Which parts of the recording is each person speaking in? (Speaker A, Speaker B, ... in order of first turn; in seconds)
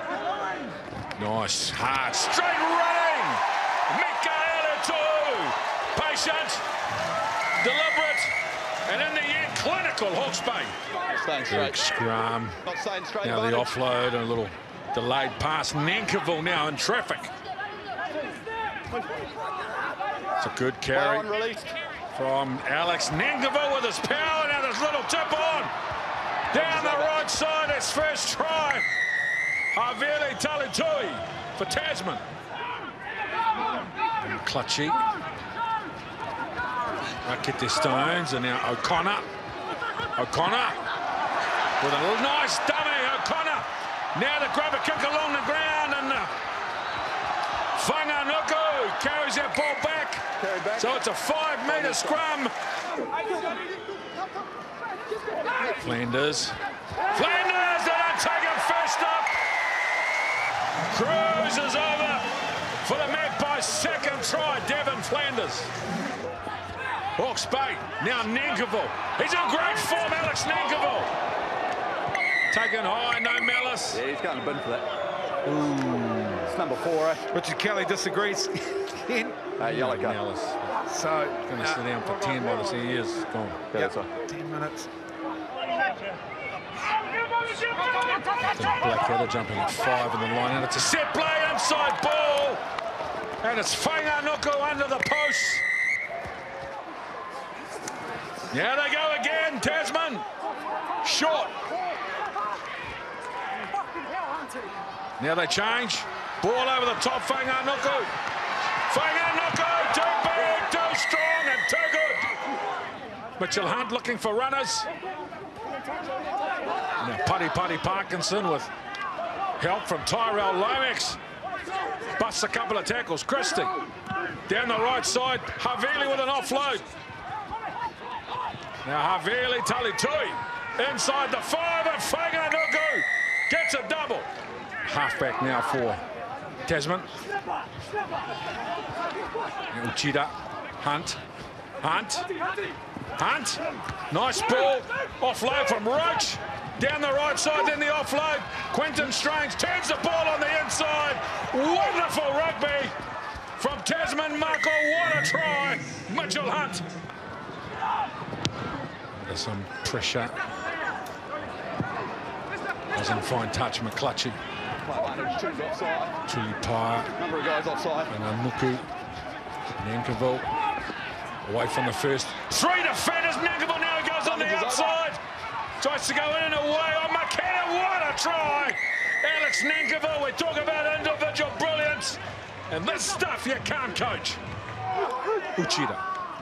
Speaker A: 1.2-6.6, 7.6-8.3, 8.9-10.8, 11.5-12.6, 13.2-17.3, 20.4-21.3, 22.1-25.7, 26.5-28.9, 29.7-32.2, 34.2-35.0, 37.2-39.3, 40.2-40.8, 41.8-46.3, 47.7-52.5, 55.6-59.4, 60.9-62.3, 62.8-65.7, 67.2-71.1, 72.5-74.0, 75.5-76.5, 79.6-80.8, 81.5-83.7, 88.4-92.6, 93.4-95.6, 98.5-100.2, 101.0-101.5, 105.2-108.1, 108.9-112.3, 113.4-114.9, 117.0-118.7, 119.6-121.2, 122.2-123.7, 124.5-126.9, 128.8-134.3, 134.8-136.0, 136.6-137.1, 139.7-141.2, 141.8-142.3, 143.2-152.9, 153.6-156.8, 159.2-160.3, 162.9-164.4, 166.2-167.1, 168.1-168.8, 169.8-170.5, 171.4-175.2, 175.8-184.4, 185.6-186.0
Speaker B: 11.0-11.8, 12.6-13.7, 20.9-21.7, 26.5-27.1, 50.4-51.0, 51.7-52.2, 73.9-74.9, 76.4-77.3, 79.6-80.2, 83.7-84.1, 164.8-166.1, 167.2-168.1, 174.2-174.9
Speaker C: 77.3-79.5, 80.9-81.8, 83.7-84.9